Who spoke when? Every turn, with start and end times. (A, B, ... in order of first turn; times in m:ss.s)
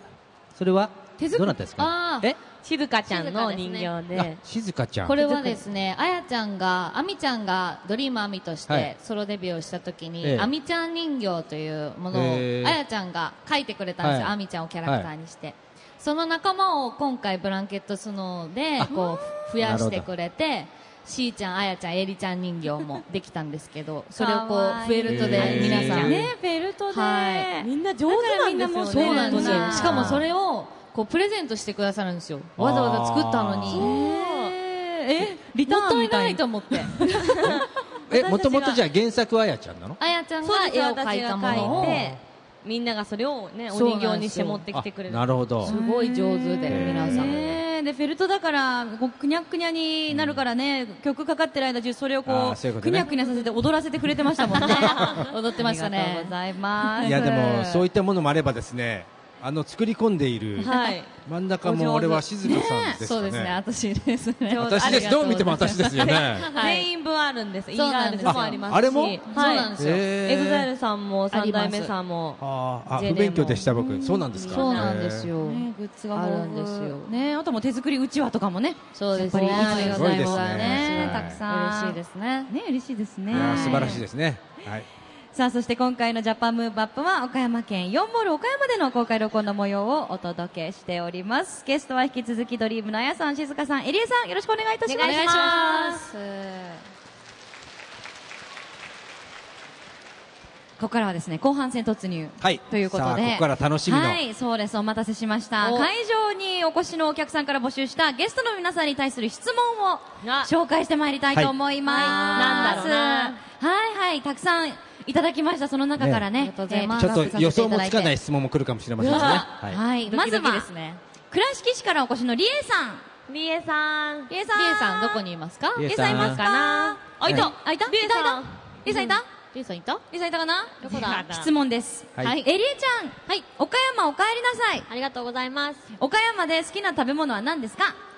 0:00.5-0:02.4 A
0:01.2-0:01.6 B
0:01.8-0:02.3 C
0:02.6-0:04.4 D
0:03.1-0:03.9 E
0:04.1-0:05.2 A
0:05.0-0:26.3 C
0:05.2-0:05.6 D
0:10.2-0:10.5 A
0:12.1-0:12.8 A
0:14.0-0:15.1 A
0:18.9-0:19.2 B
0:19.6-0:20.1 A
0:24.1-0:30.2 B
0:25.1-0:26.2 A
0:26.9-0:27.5 C
0:27.6-0:30.0 D
0:28.9-0:33.9 C
0:29.8-0:30.2 A
0:32.6-0:33.9 A
0:33.7-0:37.6 B
0:33.9-0:34.6 D
0:35.7-0:37.0 C
0:37.1-0:38.8 D
0:38.1-0:40.0 A
0:40.0-0:42.1 C
0:40.4-0:45.3 D
0:41.5-0:42.2 A
0:43.7-0:44.6 C
0:44.7-0:45.7 A
0:45.6-0:47.3 C
0:45.6-0:57.8 B
0:46.7-0:47.6 A
0:50.1-0:50.4 A
0:52.3-0:53.1 A
0:54.5-0:56.3 C
0:55.0-0:55.3 A
0:56.9-0:57.2 C
0:57.0-1:03.6 A
1:00.6-1:01.1 D
1:01.6-1:02.2 D
1:02.4-1:03.0 B
1:03.0-1:06.9 C
1:04.5-1:12.4 D
1:04.6-1:06.5 A
1:07.8-1:10.1 C
1:08.2-1:09.2 A
1:09.8-1:10.7 A
1:11.3-1:11.9 C
1:12.4-1:15.3 A
1:13.0-1:13.4 C
1:13.0-1:13.6 D
1:13.6-1:24.0 B
1:14.4-1:17.1 C
1:19.0-1:22.5 C
1:19.4-1:21.4 A
1:23.3-1:24.9 A
1:23.3-1:24.0 C
1:25.3-1:35.6 B
1:34.9-1:36.0 E
1:35.0-1:36.8 C
1:40.8-1:58.0 B
1:42.4-1:44.2 A
1:50.2-1:50.5 D
1:51.9-1:53.4 D
1:52.0-1:52.9 E
1:56.0-1:56.3 A
1:56.4-1:58.1 C
1:57.0-1:59.8 A
1:59.0-1:59.5 D
1:59.0-1:59.5 C
1:59.5-2:00.7 B
2:00.1-2:01.0 C
2:01.3-2:03.1 B
2:03.3-2:04.3 D
2:04.3-2:05.2 B
2:04.5-2:05.9 C
2:05.8-2:06.4 A
2:05.8-2:09.2 B
2:06.0-2:08.7 D
2:08.9-2:10.0 C
2:10.1-2:14.9 B
2:10.8-2:11.3 E
2:10.9-2:11.5 D
2:12.2-2:12.5 C
2:14.9-2:15.9 E
2:16.0-2:18.0 B